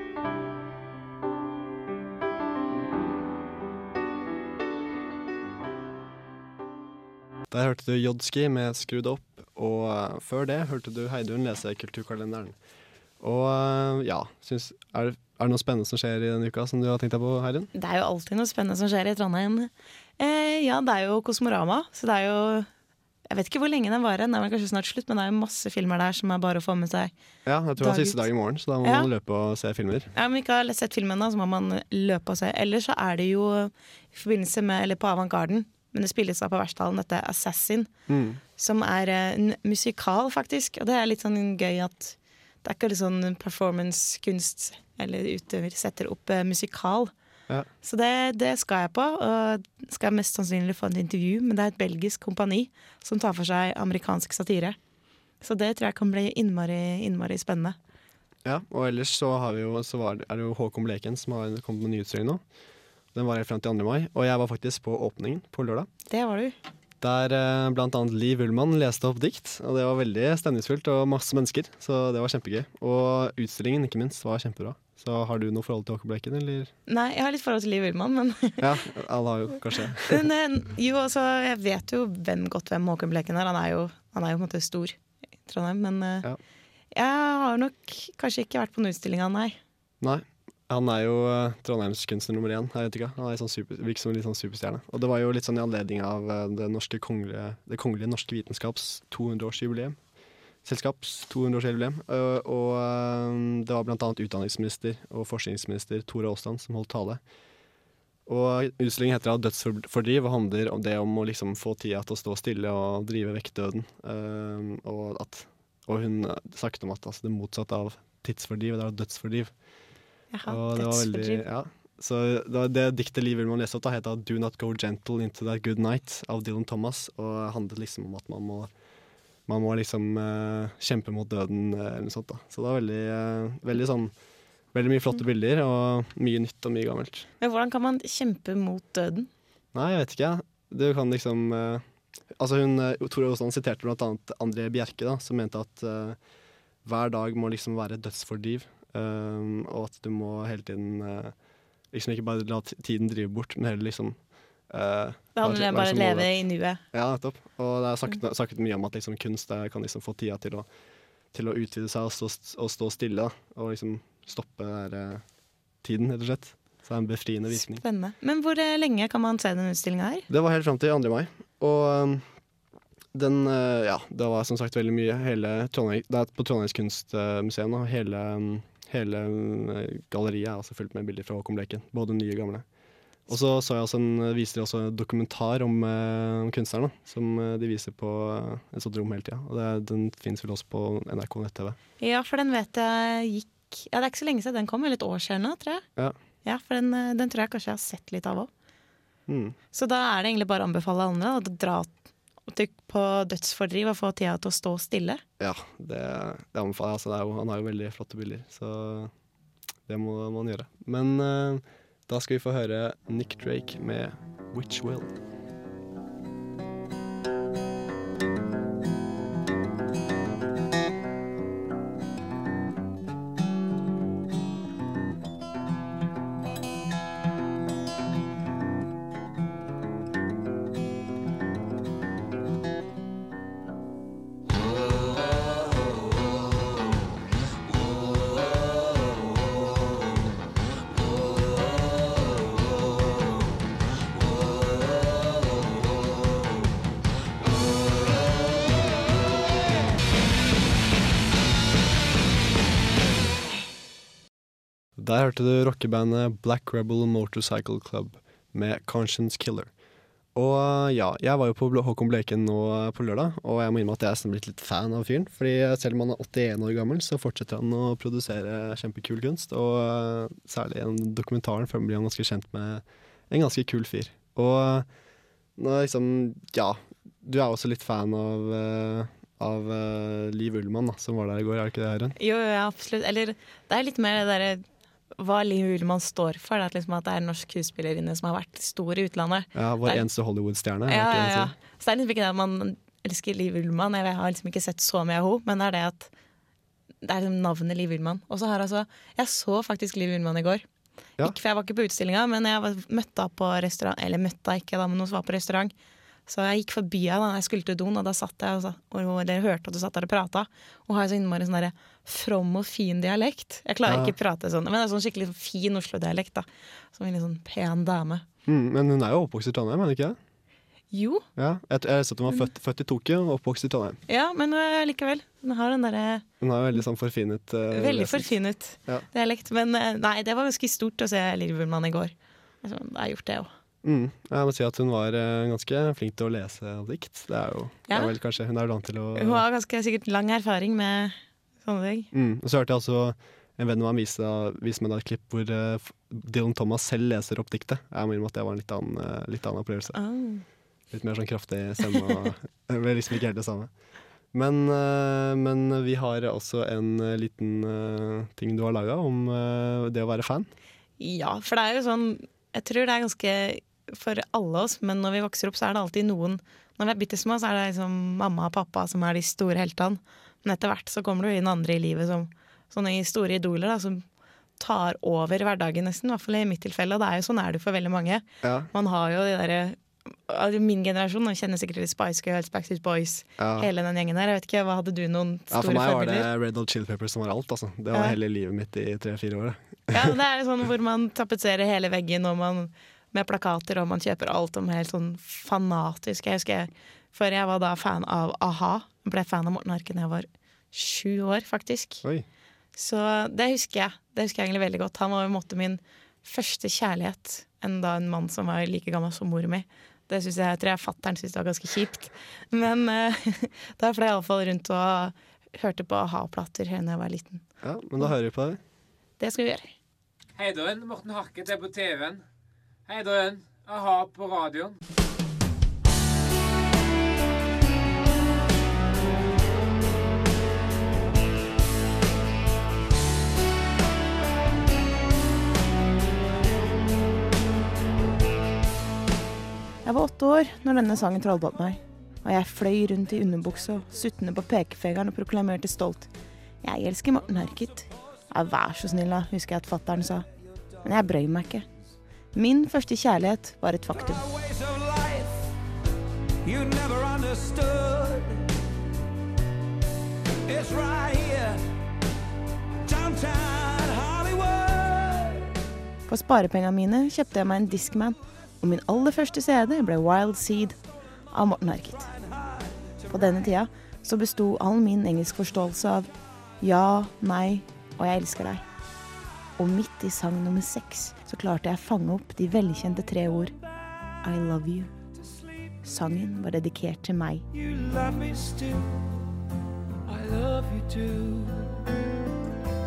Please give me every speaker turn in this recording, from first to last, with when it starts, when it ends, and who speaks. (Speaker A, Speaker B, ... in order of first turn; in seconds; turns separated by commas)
Speaker A: 7.5-12.6, Speaker A: 13.2-17.7, Speaker B: 17.7-22.7, Speaker B: 23.3-27.1, Speaker A: 27.4-30.1, Speaker B: 27.8-28.3, Speaker B: 28.8-29.1, Speaker B: 30.1-37.9, Speaker A: 38.1-38.4, Speaker B: 38.6-47.1, Speaker B: 47.8-54.8, Speaker B: 55.4-57.8, Speaker A: 58.4-62.4, Speaker A: 63.1-65.9, Speaker B: 66.1-66.5, Speaker A: 67.0-76.7, Speaker B: 76.9-78.7, Speaker A: 78.6-80.3, Speaker B: 80.0-86.2, Speaker B: 86.9-89.6, Speaker A: 90.0-100.0, Speaker A: 100.6-107.2, Speaker A: 108.3-119.5, Speaker B: 120.3-121.4, Speaker A: 120.5-128.7, Speaker A: 129.4-134.1, Speaker A: 134.7-137.3, Speaker B: 137.4-139.3, Speaker A: 139.7-141.8, Speaker A: 142.3-146.2, Speaker A: 146.8-151.3, Speaker A: 151.9-156.3, Speaker B: 155.3-156.8, Speaker A: 156.9-160.7, Speaker A: 161.3-165.2, Speaker A: 165.8-167.8, Speaker B: 167.5-170.2, Speaker A: 170.3-172.2, Speaker A: 173.1-182.6, Speaker A: 183.3-191.8, Speaker B: 192.0-195.8, Speaker B: 196.4-198.5, Speaker A: 199.3-199.6, Speaker B: 199.7-205.2, Speaker A: 205.4-209.1, Speaker A: 209.9-215.2, Speaker A: 255.0-259.7, Speaker A: 260.3-274.9, Speaker A: 275.6-282.1, Speaker B: 282.2-284.6, Speaker B: 285.2-290.0, Speaker A: 289.5-291.5, Speaker B: 290.9-296.1, Speaker B: 297.0-300.6, Speaker B: 301.2-305.7, Speaker B: 306.3-318.2, Speaker A: 313.9-314.1, Speaker A: 318.4-320.2, Speaker B: 320.9-321.2, Speaker A: 321.4-324.0, Speaker B: 324.1-326.2, Speaker A: 326.4-328.3, Speaker B: 327.7-333.5, Speaker A: 333.8-339.4, Speaker B: 337.9-338.1, Speaker B: 339.1-342.1, Speaker A: 342.1-350.0, Speaker B: 349.9-350.4, Speaker A: 350.9-353.7, Speaker A: 354.3-360.5, Speaker B: 361.0-374.0, Speaker B: 374.6-386.3, Speaker A: 378.4-378.7, Speaker A: 383.4-383.7, Speaker A: 385.5-390.1, Speaker B: 389.9-402.0, Speaker B: 402.8-417.4, Speaker A: 417.6-418.6, Speaker B: 419.2-419.7, Speaker C: 420.4-422.2, Speaker C: 422.9-424.7, Speaker B: 439.8-446.1, Speaker B: 446.6-450.2, Speaker B: 450.8-451.6, Speaker B: 452.3-454.2, Speaker D: 453.9-455.5, Speaker D: 456.4-458.5, Speaker D: 460.4-461.6, Speaker D: 462.8-465.5, Speaker B: 466.1-470.8, Speaker B: 471.3-472.1, Speaker D: 472.2-473.1, Speaker B: 473.1-476.1, Speaker B: 476.6-478.6, Speaker B: 479.6-483.5, Speaker B: 484.2-484.9, Speaker B: 485.8-487.4, Speaker D: 487.5-489.1, Speaker D: 490.1-491.8